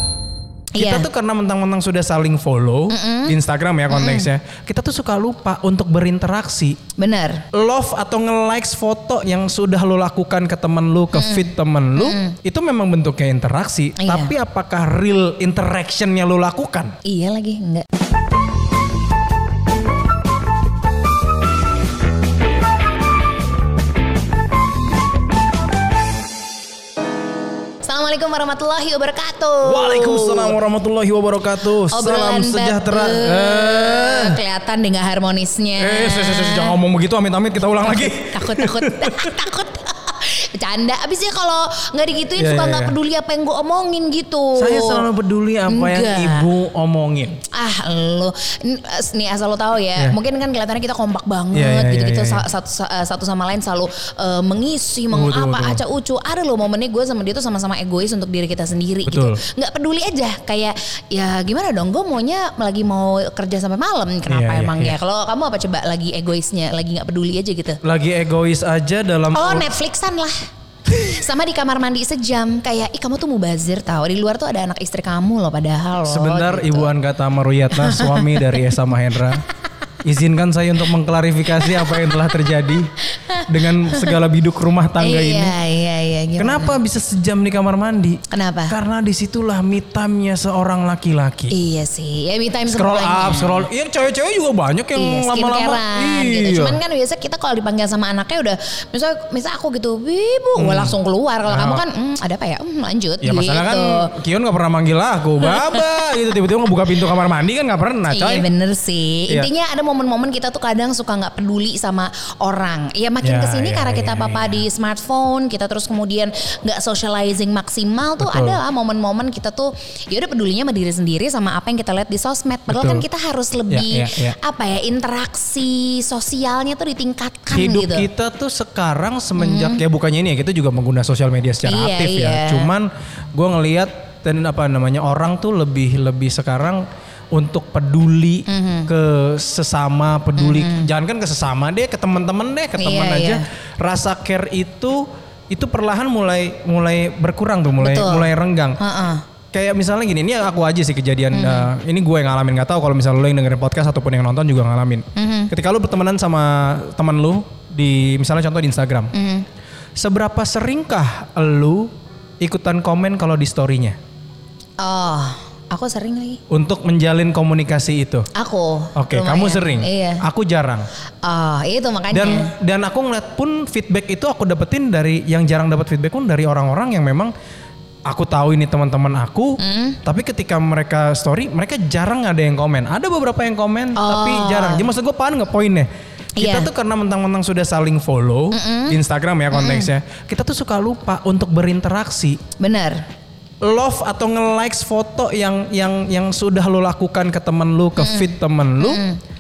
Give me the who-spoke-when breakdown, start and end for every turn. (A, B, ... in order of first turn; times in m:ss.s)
0:00.7-0:01.1 A
0:00.8-0:06.8 B
0:02.9-0:03.4 A
0:03.9-0:04.3 A
0:07.0-0:07.4 A
0:07.5-0:17.0 B
0:11.1-0:12.4 A
0:14.0-0:14.3 A
0:17.0-0:17.9 A
0:27.8-0:30.6 A
0:29.6-0:34.4 B
0:31.9-0:36.8 A
0:35.8-0:39.4 B
0:37.8-0:45.1 A
0:42.4-0:43.0 B
0:44.6-0:47.4 B
0:45.7-0:46.5 A
0:47.5-1:07.8 A
0:51.5-0:52.4 B
0:55.1-0:55.8 B
0:59.1-0:59.4 B
1:04.3-1:05.0 B
1:07.8-1:09.7 B
1:09.3-1:16.9 A
1:16.0-1:19.4 B
1:17.8-1:18.7 A
1:20.0-1:22.9 B
1:21.6-1:22.1 A
1:23.0-1:24.2 A
1:23.5-1:25.6 B
1:25.0-1:26.8 A
1:26.4-1:31.6 B
1:28.3-1:28.8 A
1:31.5-1:33.7 A
1:32.7-1:36.8 B
1:35.0-1:44.1 A
1:40.6-1:41.0 B
1:41.5-1:41.8 B
1:43.2-1:48.5 B
1:45.4-1:45.8 A
1:48.1-2:08.1 A
1:53.2-1:54.6 B
1:58.2-1:58.6 B
2:02.7-2:03.0 B
2:03.7-2:04.4 B
2:07.5-2:28.8 B
2:09.4-2:09.8 A
2:11.6-2:12.7 A
2:18.5-2:18.9 A
2:20.4-2:20.9 A
2:22.8-2:23.4 A
2:27.8-2:29.2 A
2:29.5-2:39.1 B
2:31.3-2:31.7 A
2:35.2-2:35.5 A
2:39.1-2:39.5 A
2:40.0-2:44.0 B
2:44.8-2:46.4 A
2:46.5-2:48.3 B
2:48.3-2:50.2 A
2:49.0-2:50.9 B
2:51.2-2:52.5 A
2:52.1-2:57.3 B
2:58.1-3:12.4 B
2:59.6-3:00.0 A
3:04.0-3:04.9 A
3:06.4-3:06.7 A
3:08.5-3:09.0 A
3:09.5-3:09.9 A
3:12.6-3:13.0 A
3:13.6-3:19.0 B
3:18.0-3:19.2 A